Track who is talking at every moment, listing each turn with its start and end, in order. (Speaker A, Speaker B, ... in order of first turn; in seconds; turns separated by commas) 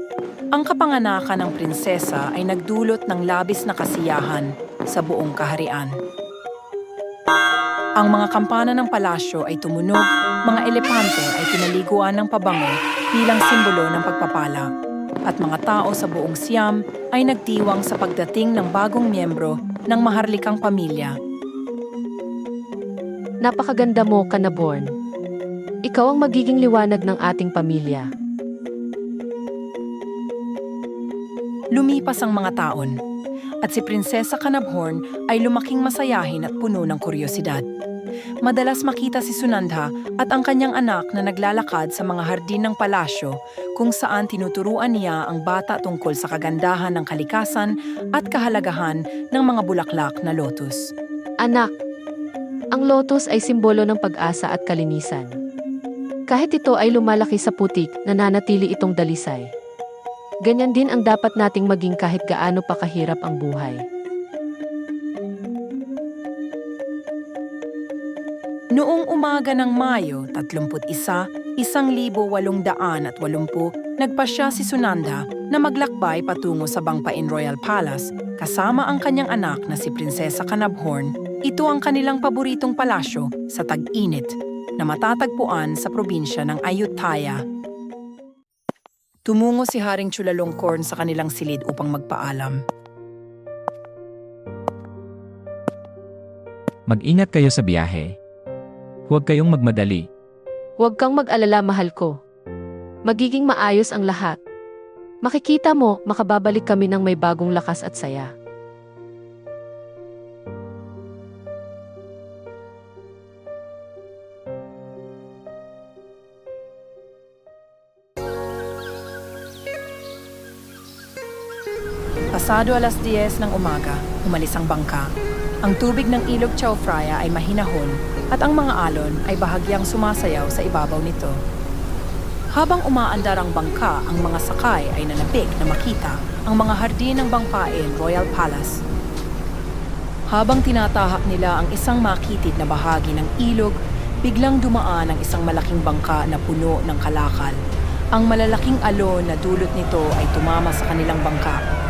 Speaker A: 0.6-5.9, Speaker A: 8.0-14.7, Speaker A: 15.3-21.1, Speaker B: 23.4-24.9, Speaker B: 25.9-28.1, Speaker A: 31.7-33.0, Speaker A: 33.6-37.6, Speaker A: 38.4-50.9, Speaker B: 51.4-51.7, Speaker B: 52.8-55.3, Speaker B: 56.3-59.5, Speaker B: 60.5-63.8, Speaker A: 68.8-87.4, Speaker A: 89.2-92.6, Speaker C: 96.9-98.1, Speaker C: 99.1-100.1, Speaker B: 100.8-102.2, Speaker B: 103.1-104.4, Speaker B: 105.2-108.3, Speaker A: 122.3-125.1, Speaker A: 125.6-131.3, Speaker A: 132.5-138.8, Speaker A: 140.3-147.6, Speaker A: 148.1-151.6